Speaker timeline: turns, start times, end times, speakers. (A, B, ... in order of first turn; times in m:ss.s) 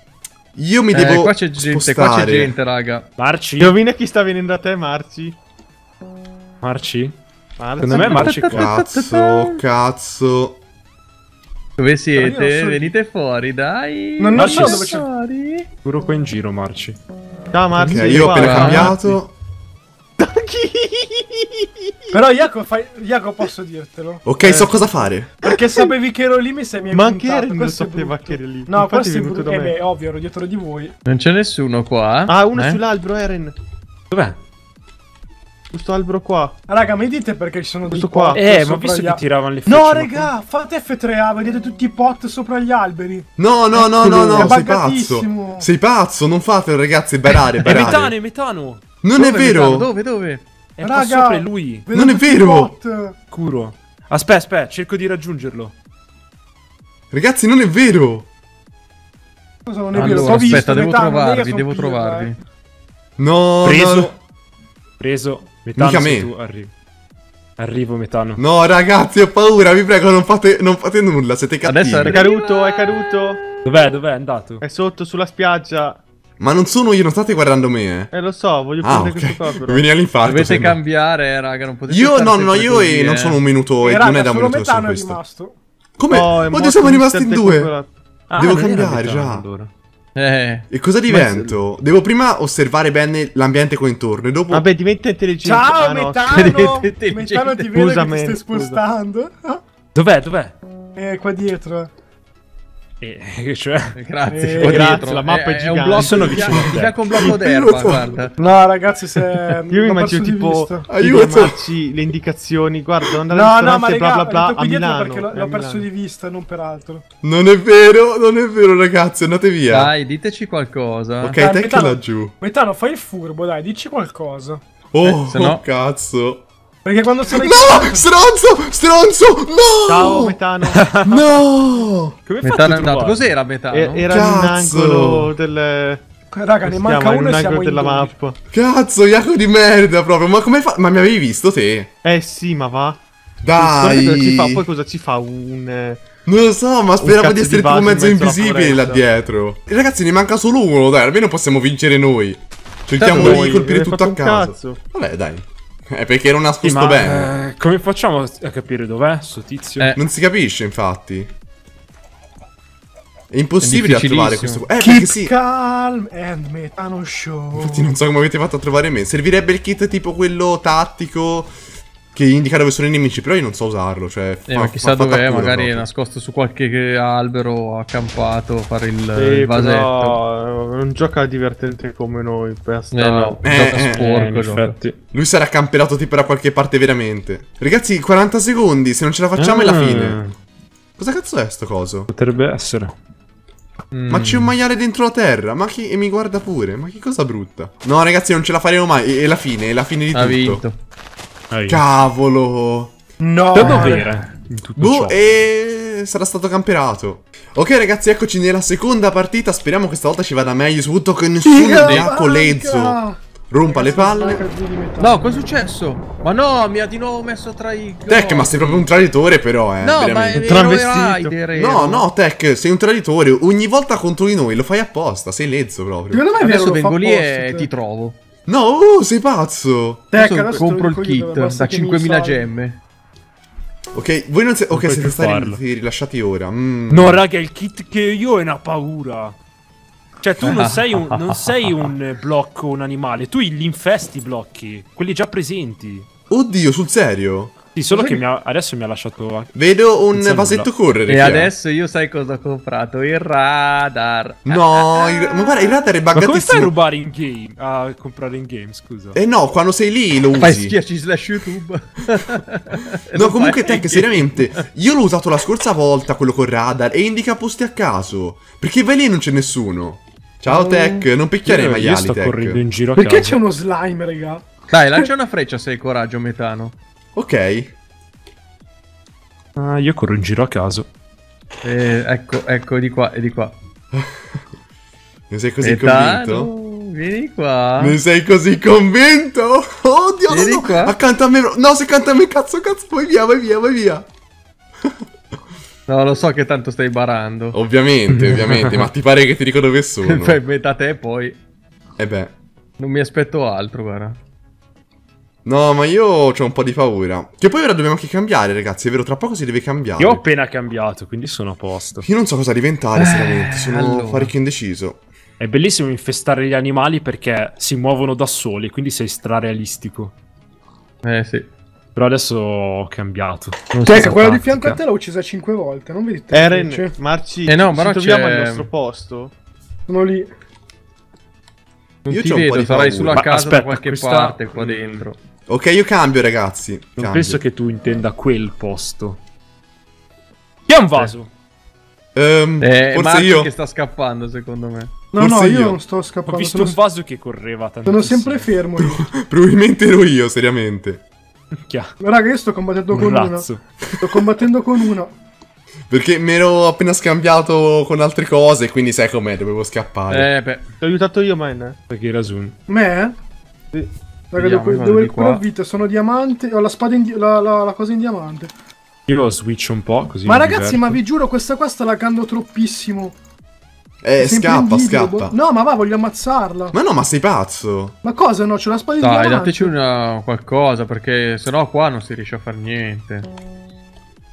0:00.5-0:02.5 A
0:00.9-0:03.1 B
0:03.2-0:03.8 C
0:03.6-0:05.4 D
0:06.6-0:07.2 C
0:07.6-0:08.4 D
0:07.8-0:08.7 C
0:07.8-0:09.5 B
0:08.4-0:10.6 A
0:11.8-0:15.7 B
0:12.1-0:13.0 E
0:14.2-0:15.1 E
0:14.3-0:14.9 C
0:15.8-0:17.0 C
0:17.5-0:18.9 D
0:17.8-0:19.3 A
0:17.8-0:19.2 C
0:18.2-0:19.0 B
0:20.2-0:22.2 D
0:22.1-0:24.3 E
0:24.2-0:25.3 A
0:24.4-0:25.9 D
0:25.4-0:30.9 E
0:26.9-0:29.8 D
0:31.0-0:32.8 B
0:32.3-0:33.5 D
0:34.1-0:34.4 C
0:35.7-0:36.6 D
0:36.7-0:45.7 E
0:37.9-0:38.4 D
0:38.3-0:40.3 C
0:43.4-0:48.1 A
0:44.0-0:44.6 D
0:47.6-0:48.8 C
0:49.0-0:49.9 A
0:49.2-0:50.4 B
0:50.8-0:51.9 C
0:50.8-0:53.2 E
0:51.9-0:52.7 A
0:53.3-0:55.7 C
0:57.1-0:58.3 A
0:59.6-1:02.3 E
0:59.9-1:02.4 B
0:59.9-1:00.5 C
1:03.2-1:04.1 A
1:03.6-1:04.2 C
1:05.0-1:06.7 C
1:05.8-1:06.3 A
1:07.6-1:08.4 C
1:08.4-1:12.2 A
1:11.6-1:13.4 B
1:12.0-1:13.4 D
1:13.6-1:14.6 C
1:14.6-1:16.0 D
1:16.4-1:18.1 A
1:18.1-1:19.9 D
1:18.8-1:20.8 A
1:20.2-1:23.4 B
1:21.9-1:25.2 A
1:23.8-1:25.6 E
1:26.0-1:27.7 A
1:26.1-1:27.9 D
1:28.3-1:29.7 C
1:28.4-1:29.4 A
1:30.2-1:30.6 B
1:30.7-1:34.6 A
1:31.1-1:31.6 D
1:34.5-1:37.0 D
1:35.4-1:39.6 E
1:36.9-1:37.6 B
1:37.6-1:38.8 D
1:39.9-1:40.5 C
1:41.0-1:41.9 E
1:43.0-1:43.9 C
1:43.9-1:48.3 B
1:44.3-1:44.8 E
1:44.6-1:47.4 D
1:44.6-1:47.2 C
1:47.2-1:48.2 A
1:48.4-1:50.9 E
1:49.7-1:55.9 D
1:50.9-1:51.6 A
1:53.2-1:57.0 E
1:57.2-1:59.9 A
1:59.7-2:01.4 B
2:01.2-2:02.3 A
2:01.4-2:04.6 E
2:04.9-2:06.4 A
2:05.0-2:05.6 B
2:06.8-2:08.1 E
2:07.3-2:10.4 A
2:09.9-2:11.0 D
2:10.7-2:11.1 C
2:11.0-2:12.2 A
2:12.2-2:13.3 C
2:12.4-2:14.1 B
2:13.7-2:16.0 D
2:14.1-2:15.3 A
2:16.3-2:18.1 E
2:16.6-2:18.4 D
2:18.5-2:21.9 A
2:22.0-2:23.0 D
2:23.4-2:24.6 A
2:23.6-2:26.0 D
2:26.2-2:37.3 A
2:27.0-2:29.0 D
2:33.0-2:33.5 B
2:33.0-2:34.8 D
2:36.6-2:39.9 C
2:39.9-2:41.3 A
2:43.3-2:45.3 A
2:43.6-2:44.6 B
2:44.8-2:47.9 E
2:47.6-2:51.5 A
2:52.1-2:55.8 A
2:54.5-3:00.2 B
2:59.2-3:03.4 D
3:02.9-3:04.7 B
3:03.4-3:04.0 A
3:03.5-3:05.0 C
3:05.1-3:10.2 A
3:09.4-3:10.3 C
3:11.0-3:12.1 A
3:12.1-3:12.9 C
3:13.9-3:14.5 C
3:14.1-3:20.6 A
3:20.1-3:20.8 B
3:21.5-3:21.8 C
3:21.7-3:22.9 A
3:23.2-3:24.1 E
3:23.5-3:25.2 C
3:24.8-3:33.0 A
3:31.4-3:35.4 E
3:33.5-3:34.4 A
3:35.0-3:38.8 B
3:38.1-3:40.6 A
3:39.8-3:42.1 B
3:40.3-3:41.3 D
3:41.5-3:46.2 A
3:46.1-3:47.7 E
3:46.4-3:48.2 B
3:48.5-3:50.0 A
3:50.1-3:52.5 E
3:50.1-3:52.8 B
3:53.9-3:57.2 A
3:54.7-3:55.6 C
3:56.9-3:59.4 C
4:00.2-4:06.1 C
4:00.4-4:01.8 B
4:06.3-4:07.5 A
4:07.7-4:09.5 C
4:07.9-4:08.2 E
4:09.5-4:11.5 A
4:10.1-4:10.7 C
4:11.1-4:15.8 B
4:14.4-4:16.7 A
4:16.1-4:19.2 C
4:19.1-4:20.8 A
4:20.4-4:24.6 B
4:23.1-4:32.6 A
4:30.5-4:31.1 E
4:31.4-4:33.4 C
4:32.9-4:35.1 E
4:34.7-4:36.7 B
4:37.1-4:37.7 A
4:39.6-4:40.9 C
4:41.6-4:43.5 B
4:45.3-4:46.5 A
4:45.6-4:48.0 B
4:47.8-4:54.0 A
4:50.3-4:51.0 B
4:55.9-4:57.6 B
4:57.5-5:00.4 A
4:58.1-4:58.9 C
5:00.0-5:01.4 B
5:02.0-5:02.3 A
5:02.8-5:04.2 B
5:05.4-5:10.2 A
5:10.0-5:12.0 C
5:12.0-5:15.0 A
5:13.0-5:14.3 B
5:15.4-5:20.1 C
5:21.0-5:21.5 B
5:21.9-5:24.8 C
5:23.7-5:24.2 B
5:23.8-5:27.0 E
5:26.3-5:29.3 D
5:27.4-5:28.7 B
5:29.9-5:30.3 E
5:32.1-5:33.3 A
5:32.1-5:35.2 B
5:33.1-5:35.1 C
5:35.5-5:37.4 A
5:37.0-5:39.2 C
5:40.7-5:41.3 C
5:42.1-5:43.5 A
5:42.6-5:44.9 B
5:45.1-5:46.8 E
5:45.2-5:45.8 A
5:46.2-5:48.5 C
5:47.8-5:49.1 E
5:48.8-5:51.0 A
5:51.5-5:51.9 C
5:52.0-5:55.1 E
5:52.9-5:53.6 C
5:55.9-6:00.3 A
6:00.1-6:00.6 B
6:00.8-6:01.8 D
6:01.9-6:02.6 C
6:02.7-6:03.2 E
6:04.3-6:08.5 E
6:04.4-6:05.4 B
6:09.1-6:11.0 C
6:10.2-6:13.2 E
6:14.0-6:15.3 A
6:14.2-6:16.8 E
6:16.7-6:17.9 A
6:18.0-6:19.7 E
6:19.0-6:23.3 B